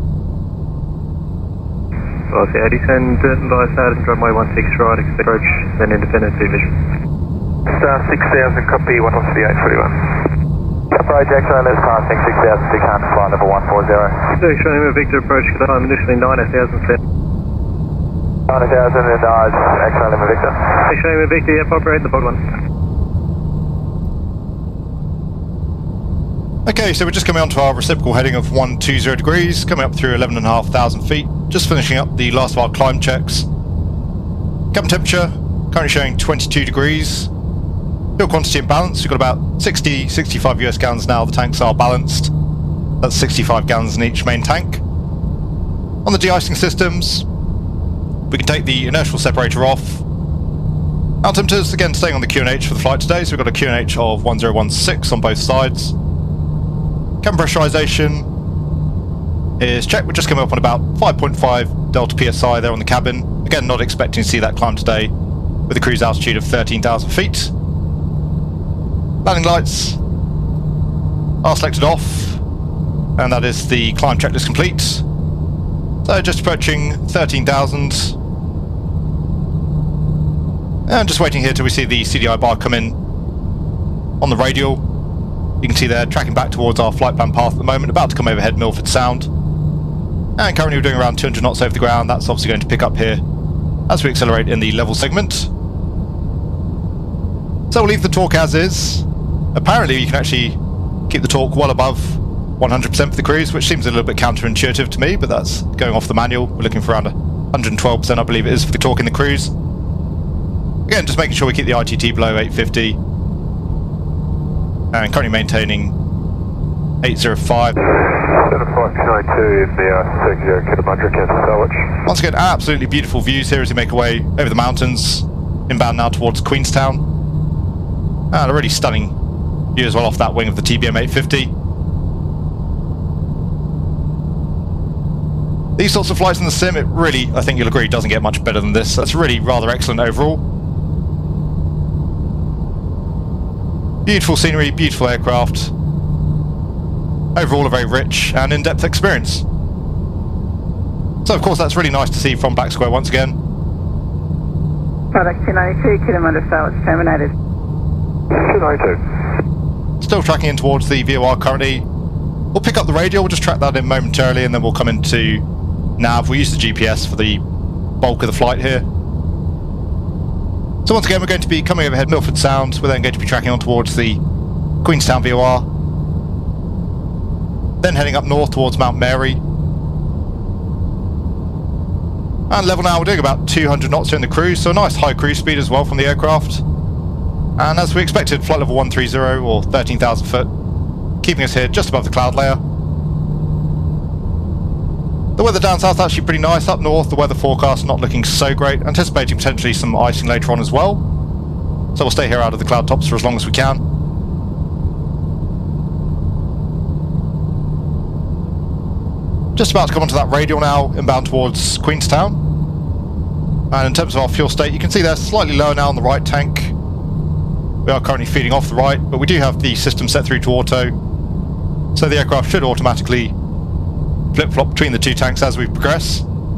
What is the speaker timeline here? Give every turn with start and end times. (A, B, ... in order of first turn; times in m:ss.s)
0:02.3-0:06.7 A
0:07.7-0:10.1 B
0:10.9-0:14.2 C
0:14.4-0:17.0 A
0:18.5-0:20.7 C
0:20.8-0:22.4 A
0:26.6-0:33.5 D
0:34.7-0:37.3 D
0:38.2-0:42.3 D
0:43.0-0:44.8 D
0:46.0-0:47.3 D
0:48.3-0:50.0 D
0:51.2-0:55.9 D
0:57.2-0:58.3 D
0:59.6-1:05.1 D
1:05.7-1:07.5 D
1:09.2-1:10.0 D
1:11.4-1:12.4 D
1:13.2-1:15.0 D
1:16.0-1:18.1 D
1:20.9-1:23.0 D
1:24.2-1:24.8 D
1:25.6-1:29.3 D
1:30.4-1:33.2 D
1:33.9-1:35.5 D
1:37.7-1:40.6 D
1:41.1-1:49.5 D
1:50.9-1:53.0 D
1:54.9-1:55.9 D
1:57.0-1:57.7 D
1:57.9-2:01.8 C
2:02.1-2:07.0 D
2:08.3-2:09.1 D
2:09.8-2:11.5 D
2:15.8-2:20.4 D
2:24.1-2:25.7 D
2:27.4-2:29.4 D
2:31.2-2:33.4 D
2:35.1-2:37.3 E
2:38.3-2:39.0 C
2:40.0-2:41.9 D
2:42.5-2:45.4 D
2:46.0-2:47.4 D
2:48.0-2:48.8 D
2:50.9-2:54.2 D
2:54.8-2:55.7 D
2:57.8-2:59.4 D
3:02.5-3:06.6 D
3:07.6-3:10.5 D
3:11.2-3:12.6 D
3:15.4-3:21.0 D
3:22.0-3:23.8 D
3:29.6-3:32.4 D
3:33.7-3:36.7 D
3:37.9-3:40.9 D
3:42.0-3:43.3 D
3:44.3-3:46.2 D